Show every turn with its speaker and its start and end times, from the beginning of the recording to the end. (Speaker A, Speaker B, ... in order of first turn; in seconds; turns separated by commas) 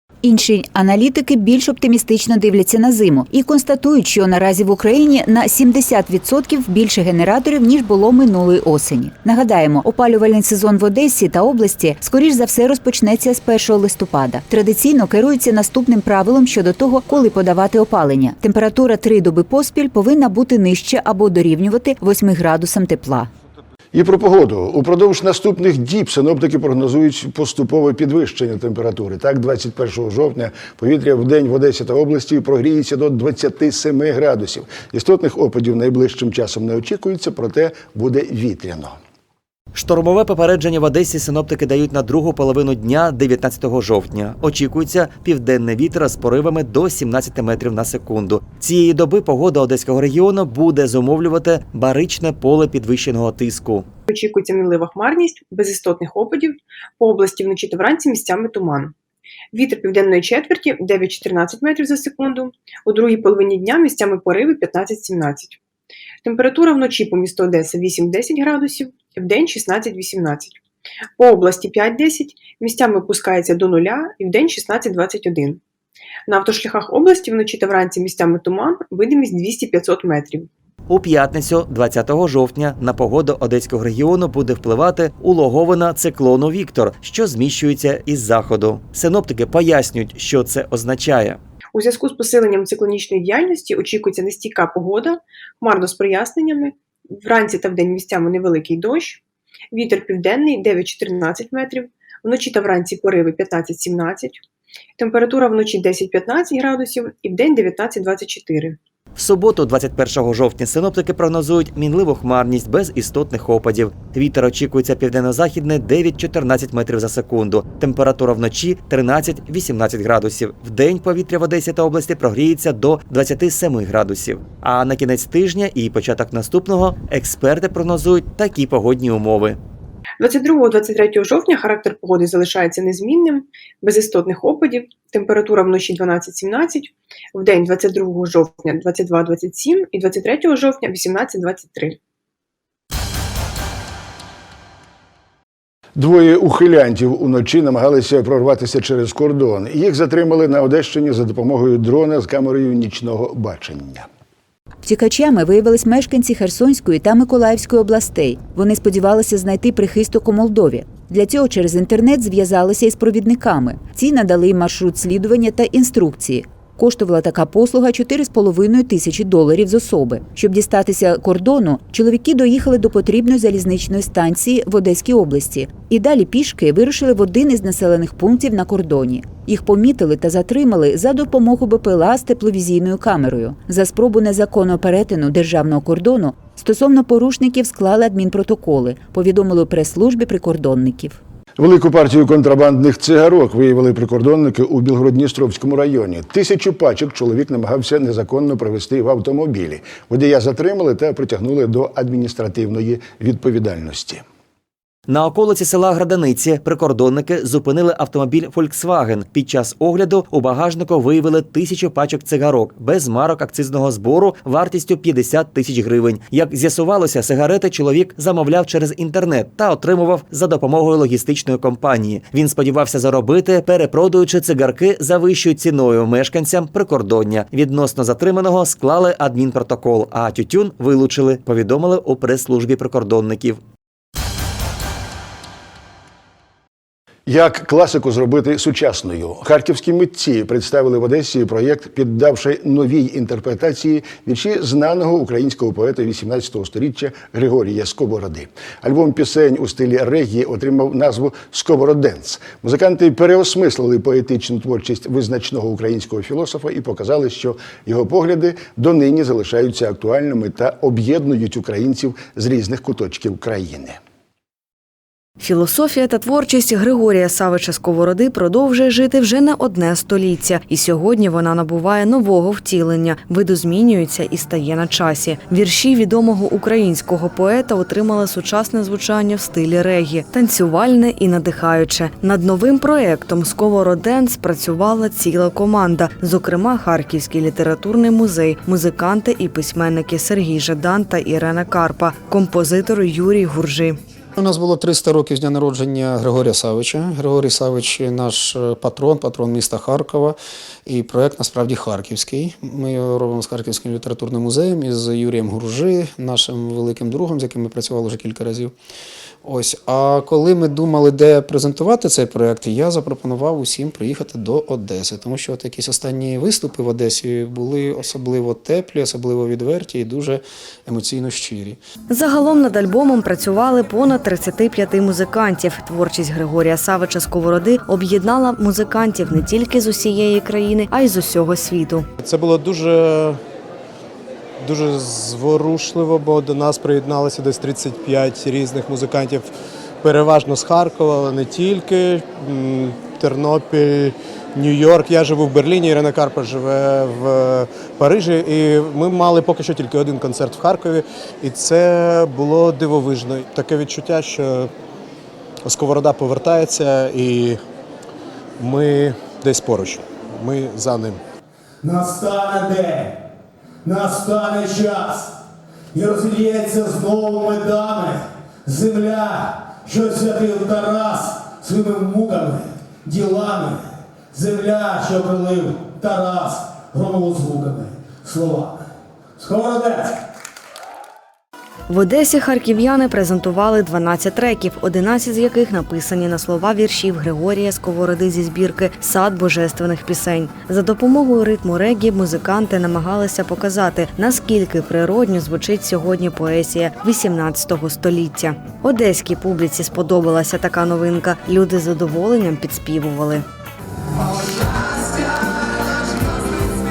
Speaker A: 0.2-23.3, Speaker B: 23.9-39.0, Speaker C: 39.7-53.9, Speaker D: 54.1-58.9, Speaker D: 59.5-65.6, Speaker D: 66.2-70.6, Speaker D: 71.2-75.6, Speaker D: 76.3-80.5, Speaker C: 80.9-91.4, Speaker D: 91.7-99.2, Speaker D: 99.7-104.4, Speaker D: 105.0-108.8, Speaker C: 109.2-129.6, Speaker D: 130.2-142.0, Speaker B: 145.9-154.1, Speaker A: 154.8-191.2, Speaker B: 191.6-204.2, Speaker C: 205.1-233.6, Speaker B: 237.2-264.0, Speaker E: 265.4-294.0, Speaker F: 294.4-308.7, Speaker F: 309.4-321.8, Speaker E: 322.1-332.1, Speaker G: 332.2-333.4, Speaker G: 334.6-339.5, Speaker G: 340.0-354.7, Speaker G: 355.6-357.6, Speaker G: 358.6-361.2, Speaker H: 361.8-363.2, Speaker H: 363.8-365.3, Speaker H: 365.9-378.9, Speaker H: 379.4-380.2, Speaker E: 381.9-403.4